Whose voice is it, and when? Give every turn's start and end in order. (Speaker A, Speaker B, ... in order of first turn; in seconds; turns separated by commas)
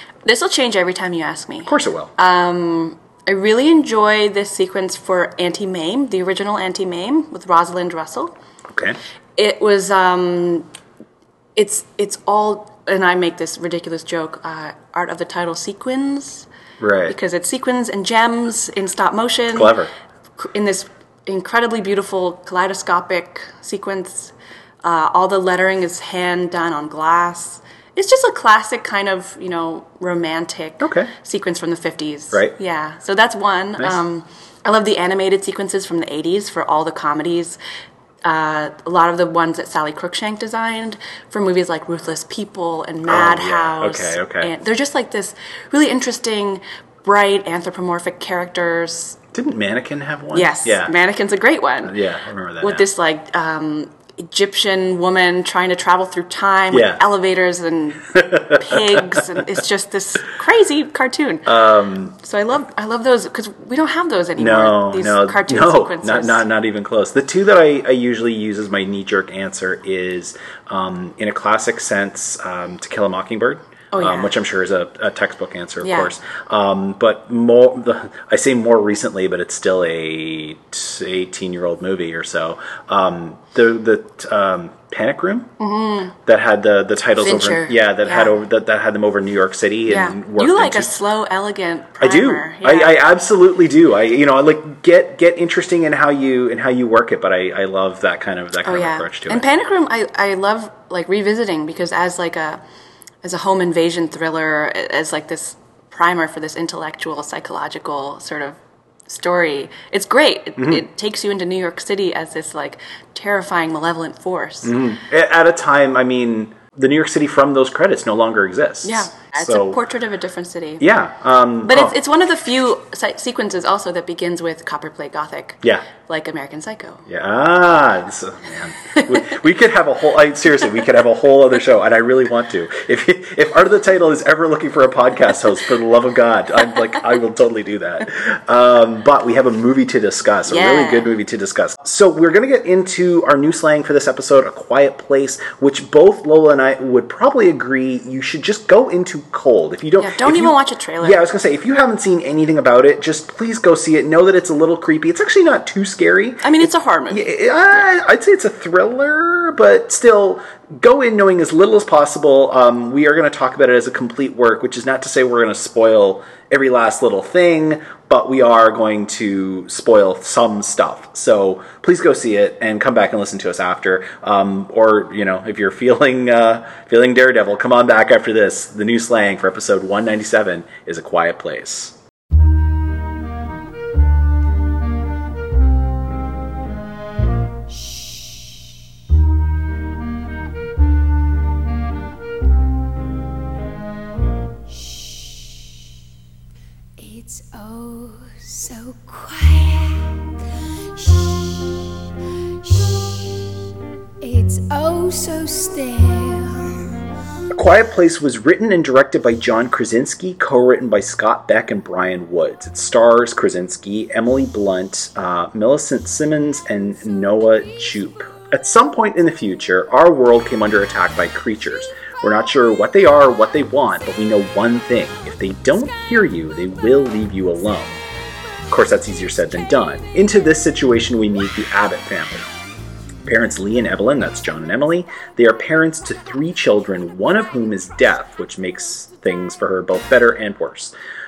Speaker A: 0.2-8.3, Speaker B: 1.6-2.1, Speaker B: 8.7-9.0, Speaker A: 9.4-10.7, Speaker A: 11.6-16.5, Speaker B: 16.8-17.2, Speaker A: 17.1-19.8, Speaker B: 19.5-19.9, Speaker A: 20.4-37.6, Speaker B: 30.8-31.1, Speaker A: 38.2-49.2, Speaker B: 43.1-44.5, Speaker B: 49.3-50.9, Speaker A: 50.3-52.0, Speaker B: 51.8-52.9, Speaker A: 52.6-61.5, Speaker B: 56.7-57.0, Speaker B: 58.1-59.2, Speaker B: 61.5-62.2, Speaker A: 62.2-66.4, Speaker B: 64.4-85.5, Speaker A: 73.9-74.4, Speaker A: 75.8-76.1, Speaker A: 85.6-86.2, Speaker B: 86.3-91.0, Speaker A: 87.2-88.3, Speaker A: 89.9-93.0, Speaker B: 92.0-99.5, Speaker A: 98.6-102.6, Speaker A: 103.2-114.8, Speaker B: 110.6-110.8, Speaker B: 114.6-119.8, Speaker A: 118.8-120.8, Speaker B: 120.8-122.0, Speaker A: 121.7-127.1, Speaker B: 127.1-182.0, Speaker A: 140.5-141.1, Speaker A: 150.0-151.2, Speaker A: 156.4-157.2, Speaker C: 194.8-195.4, Speaker C: 197.0-200.2, Speaker C: 200.9-201.8, Speaker C: 202.6-203.5, Speaker C: 204.2-206.8, Speaker B: 207.5-228.0, Speaker B: 228.7-232.5, Speaker B: 233.2-240.9